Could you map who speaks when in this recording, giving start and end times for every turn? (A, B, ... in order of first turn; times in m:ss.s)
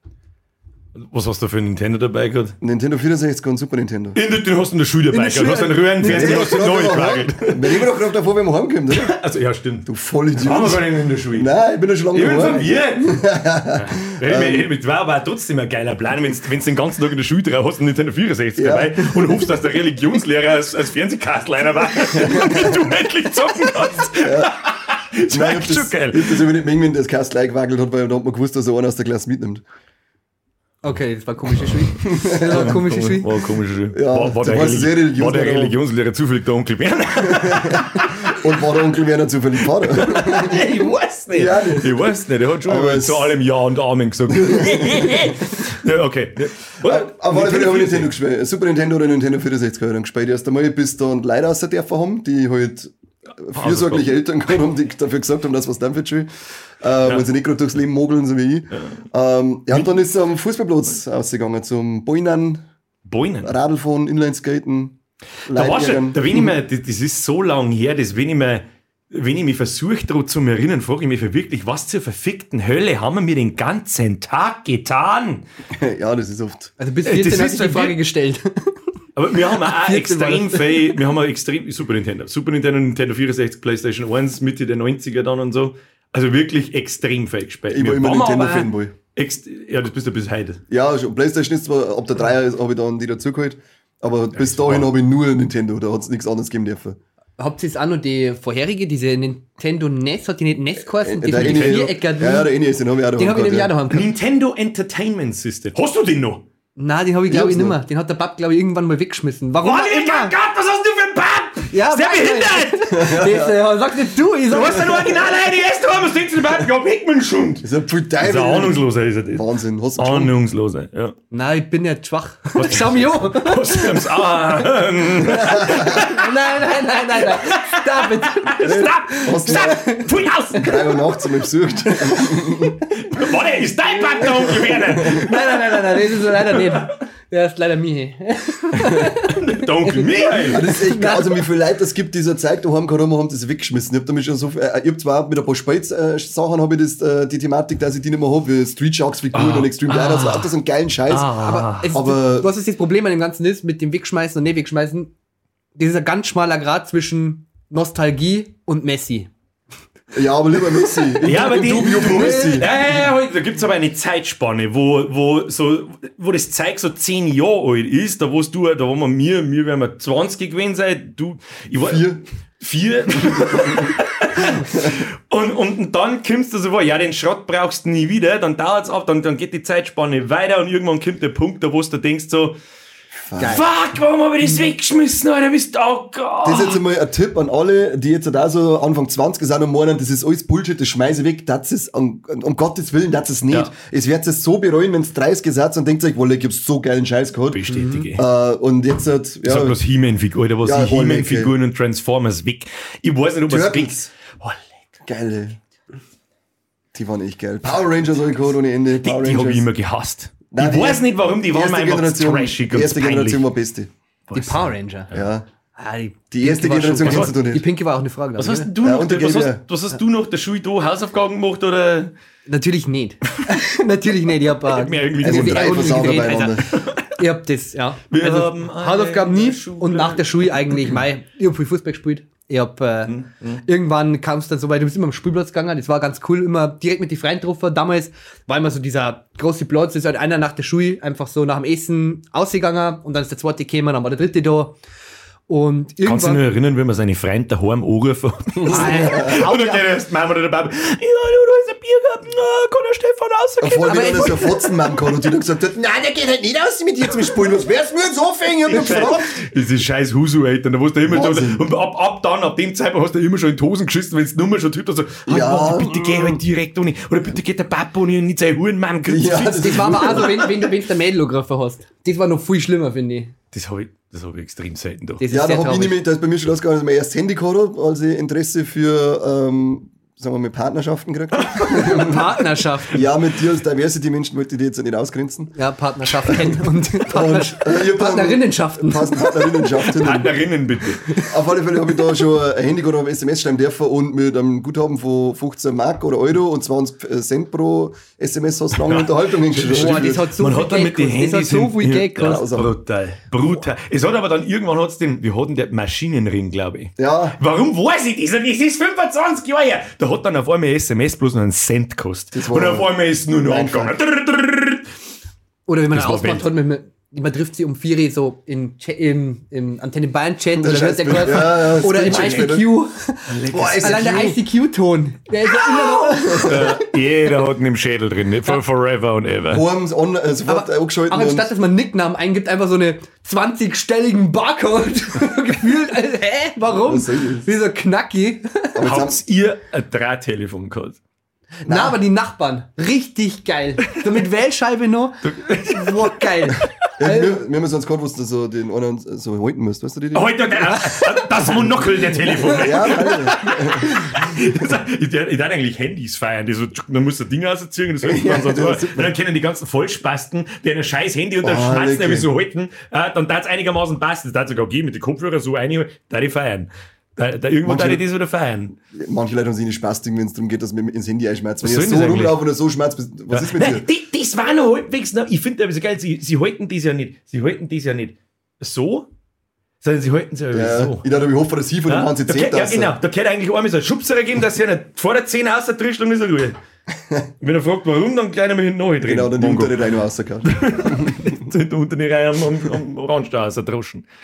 0:00.9-0:02.6 A
0:02.6-0:04.2 B
0:04.1-0:07.8 A
0:05.1-0:06.8 C
0:06.0-0:09.1 B
0:08.9-0:11.5 A
0:09.8-0:14.7 B
0:12.1-0:13.2 A
0:13.7-0:26.4 A
0:18.6-0:19.2 B
0:22.2-0:22.8 B
0:24.2-0:24.5 B
0:25.3-0:29.6 B
0:30.8-0:33.4 C
0:32.0-0:32.8 B
0:32.4-0:38.4 A
0:33.9-0:35.8 B
0:37.2-0:40.6 B
0:39.9-0:48.1 A
0:41.3-0:43.3 B
0:44.3-0:45.3 B
0:46.8-0:56.3 B
0:53.5-0:54.1 A
0:56.8-1:02.6 B
1:03.0-1:03.6 A
1:03.4-1:05.0 B
1:05.5-1:06.5 B
1:05.5-1:15.4 A
1:15.7-1:16.7 B
1:16.8-1:18.7 C
1:17.0-1:18.0 A
1:19.1-1:30.6 A
1:19.5-1:21.0 C
1:27.7-1:28.9 B
1:30.7-1:37.0 B
1:34.3-1:34.9 A
1:37.4-1:42.5 C
1:41.0-1:43.7 B
1:41.3-1:41.9 A
1:43.2-1:44.1 C
1:43.9-1:46.4 A
1:46.8-1:50.3 C
1:47.3-1:47.8 B
1:49.6-1:53.1 A
1:51.7-1:55.3 C
1:52.9-1:53.6 B
1:54.5-1:57.7 A
1:57.6-2:00.3 B
1:58.2-1:59.4 A
2:00.0-2:01.1 A
2:01.3-2:04.1 C
2:02.5-2:06.3 A
2:05.5-2:05.9 B
2:05.5-2:10.8 C
2:07.3-2:10.9 A
2:08.6-2:10.0 B
2:10.5-2:12.9 B
2:12.0-2:12.5 C
2:12.9-2:15.6 A
2:14.2-2:15.2 B
2:14.9-2:21.4 C
2:16.4-2:16.9 A
2:19.0-2:20.7 A
2:20.4-2:31.4 B
2:29.3-2:30.4 A
2:30.1-2:30.5 C
2:31.1-2:31.9 A
2:31.4-2:35.1 C
2:31.9-2:32.5 B
2:35.8-2:39.3 C
2:40.1-2:42.7 B
2:40.6-2:42.7 C
2:41.2-3:02.6 A
2:51.8-2:52.2 B
2:53.2-2:54.0 B
3:03.2-3:03.7 B
3:03.4-3:06.8 A
3:06.4-3:19.8 B
3:17.5-3:18.2 A
3:17.7-3:18.0 C
3:19.4-3:24.6 A
3:20.6-3:21.5 B
3:23.5-3:24.1 B
3:25.0-3:25.6 B
3:26.9-3:29.7 B
3:29.0-3:33.4 A
3:30.5-3:33.9 B
3:34.3-3:35.3 A
3:34.3-3:35.1 C
3:35.1-3:35.4 B
3:35.8-3:38.7 C
3:36.3-3:37.6 B
3:37.0-3:37.3 A
3:38.4-3:42.1 A
3:38.8-3:39.6 B
3:42.4-4:04.8 C
3:44.7-3:46.1 A
3:45.2-3:46.7 B
3:46.7-3:47.1 A
3:48.1-3:50.9 A
3:53.1-3:53.6 A
4:05.5-4:06.4 C
4:06.0-4:14.4 A
4:08.6-4:09.4 B
4:08.7-4:09.8 C
4:13.6-4:19.3 B
4:13.8-4:15.0 C
4:18.7-4:30.5 A
4:18.7-4:19.2 C
4:21.1-4:21.6 B
4:25.3-4:26.4 B
4:29.1-4:30.7 B
4:29.6-4:33.3 C
4:33.5-4:35.2 A
4:35.2-4:36.0 C
4:35.3-4:45.5 B
4:41.3-4:42.1 A
4:41.7-4:43.0 C
4:45.6-4:49.7 C
4:46.1-4:50.4 B
4:49.9-4:51.1 A
4:51.2-5:00.3 B
4:58.7-5:14.9 A
4:59.6-5:02.4 C
5:02.2-5:02.7 B
5:07.0-5:07.4 B
5:12.3-5:13.9 B
5:15.6-5:26.8 C
5:15.9-5:16.5 A
5:20.5-5:22.8 B
5:23.3-5:24.2 A
5:23.3-5:24.4 B
5:26.0-5:26.8 B
5:26.3-5:29.7 A
5:29.4-5:31.5 B
5:30.5-5:38.8 C
5:36.8-5:37.5 B
5:38.7-5:39.2 B
5:38.8-5:41.0 A
5:41.6-5:42.0 B
5:41.6-5:47.4 C
5:45.2-5:46.1 A
5:47.0-5:50.8 B
5:50.1-6:08.8 A
5:51.5-5:53.9 B
5:52.6-5:53.0 C
5:58.0-5:59.1 B
6:01.4-6:02.3 B
6:07.6-6:08.0 B
6:08.9-6:13.8 B
6:11.6-6:12.4 A
6:13.3-6:19.1 A
6:19.8-6:21.0 A
6:20.5-6:23.0 B
6:21.9-6:26.6 A
6:27.4-6:29.8 A
6:29.0-6:31.4 B
6:30.4-6:34.1 A